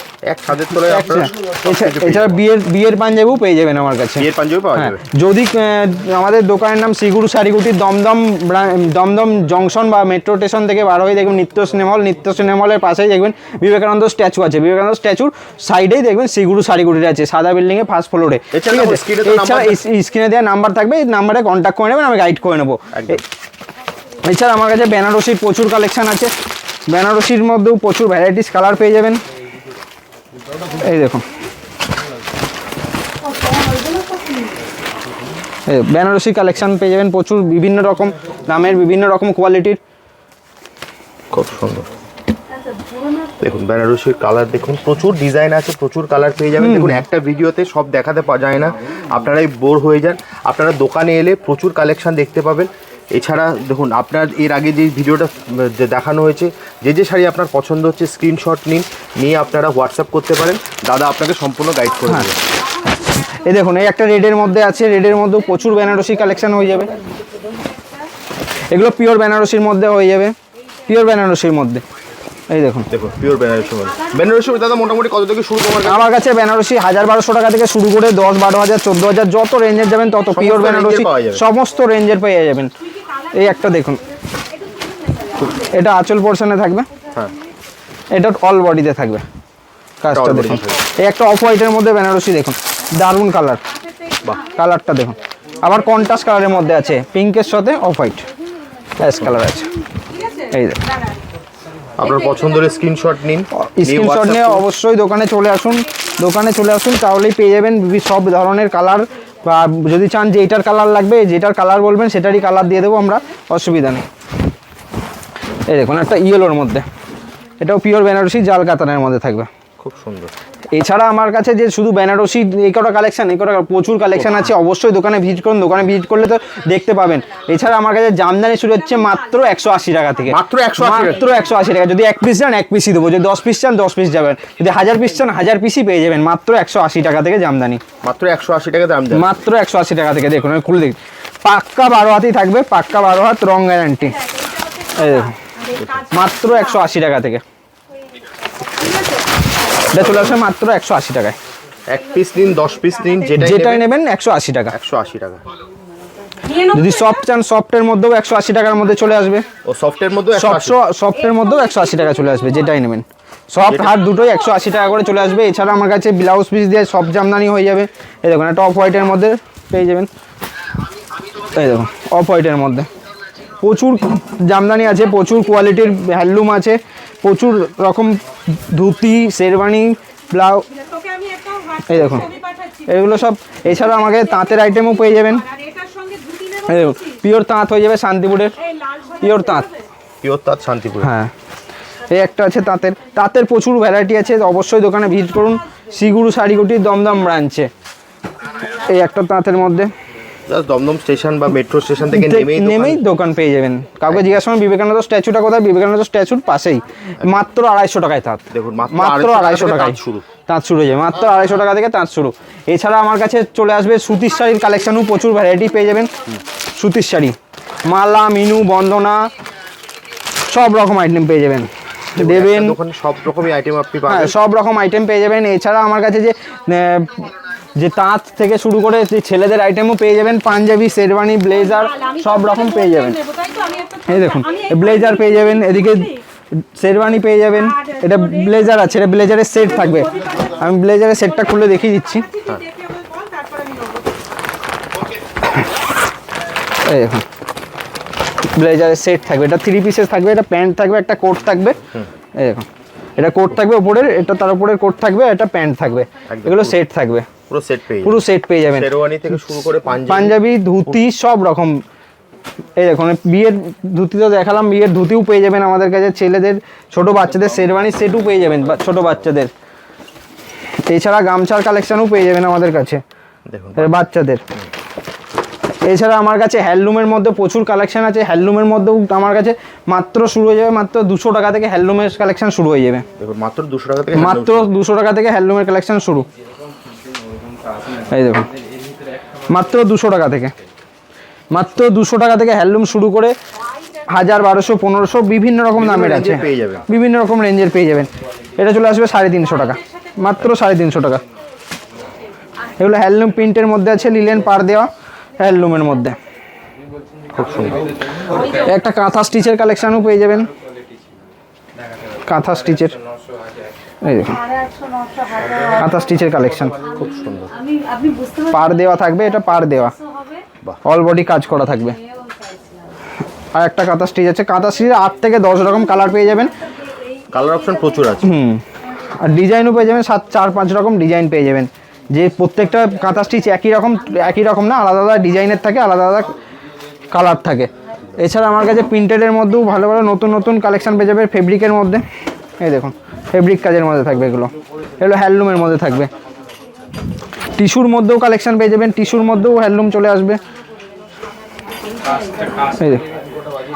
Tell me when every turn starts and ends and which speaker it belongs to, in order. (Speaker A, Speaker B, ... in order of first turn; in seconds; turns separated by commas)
Speaker A: 0.2-2.4, Speaker B: 0.8-23.2, Speaker A: 4.2-5.0, Speaker A: 18.5-19.8, Speaker A: 22.9-23.2, Speaker B: 24.2-26.4, Speaker B: 26.9-29.2, Speaker B: 30.8-31.2, Speaker C: 33.5-34.4, Speaker B: 35.7-39.8, Speaker A: 41.3-41.9, Speaker A: 43.4-62.4, Speaker B: 46.6-47.0, Speaker B: 63.3-66.9, Speaker B: 68.7-70.3, Speaker B: 70.9-71.8, Speaker B: 72.5-72.9, Speaker A: 72.9-76.1, Speaker B: 75.8-82.7, Speaker A: 80.3-81.4, Speaker B: 83.3-84.0, Speaker C: 84.6-85.4, Speaker B: 85.7-86.9, Speaker B: 88.1-89.2, Speaker B: 90.0-93.6, Speaker A: 90.1-90.9, Speaker B: 94.4-98.3, Speaker B: 99.0-99.7, Speaker B: 100.5-100.8, Speaker A: 102.0-104.7, Speaker B: 103.5-114.0, Speaker B: 115.7-116.8, Speaker B: 117.6-119.5, Speaker A: 119.8-120.3, Speaker B: 120.7-137.8, Speaker A: 130.3-131.3, Speaker A: 138.0-139.3, Speaker B: 139.1-144.4, Speaker B: 144.9-145.4, Speaker A: 145.7-146.1, Speaker B: 146.1-147.4, Speaker C: 148.7-149.4, Speaker A: 149.9-150.4, Speaker B: 149.9-151.4, Speaker A: 151.9-153.9, Speaker B: 153.3-154.7, Speaker A: 154.7-155.4, Speaker B: 156.6-159.5, Speaker A: 159.7-160.8, Speaker B: 160.3-170.1, Speaker A: 163.7-164.0, Speaker B: 171.5-172.9, Speaker B: 173.6-180.7, Speaker C: 180.9-182.7, Speaker B: 181.8-182.3, Speaker B: 182.8-185.5, Speaker C: 185.5-186.6, Speaker B: 186.6-188.6, Speaker C: 188.7-189.2, Speaker B: 189.2-189.7, Speaker A: 190.2-191.1, Speaker B: 191.0-191.3, Speaker B: 192.1-197.7, Speaker B: 198.6-199.9, Speaker A: 200.5-203.0, Speaker B: 202.1-216.1, Speaker A: 208.5-210.3, Speaker B: 216.8-219.3, Speaker B: 220.5-222.8, Speaker A: 222.2-224.4, Speaker B: 224.1-233.2, Speaker C: 232.0-235.3, Speaker B: 234.0-236.2, Speaker B: 236.8-242.3, Speaker C: 242.3-244.1, Speaker B: 246.8-247.2, Speaker B: 248.5-251.8, Speaker B: 252.4-252.7, Speaker B: 253.2-257.3, Speaker A: 256.3-256.8, Speaker A: 257.5-260.4, Speaker B: 258.0-258.9, Speaker B: 260.1-261.8, Speaker B: 262.8-269.5, Speaker B: 270.9-273.0, Speaker A: 273.5-273.9, Speaker B: 273.8-274.4, Speaker B: 275.8-283.1, Speaker A: 283.2-284.7, Speaker B: 284.1-286.3, Speaker B: 287.9-288.5, Speaker B: 289.5-290.5, Speaker B: 291.5-293.4, Speaker B: 294.1-301.2, Speaker A: 295.7-296.8, Speaker B: 302.8-306.2, Speaker A: 307.3-307.9, Speaker B: 308.4-310.5, Speaker B: 312.2-312.9, Speaker B: 314.0-314.5, Speaker B: 315.7-316.8, Speaker A: 316.9-317.5, Speaker B: 318.5-319.9, Speaker B: 320.9-322.0, Speaker B: 323.5-326.5, Speaker A: 327.3-328.3, Speaker B: 328.2-336.4, Speaker B: 337.1-342.0, Speaker B: 342.6-346.1, Speaker B: 347.6-350.4, Speaker B: 352.7-353.1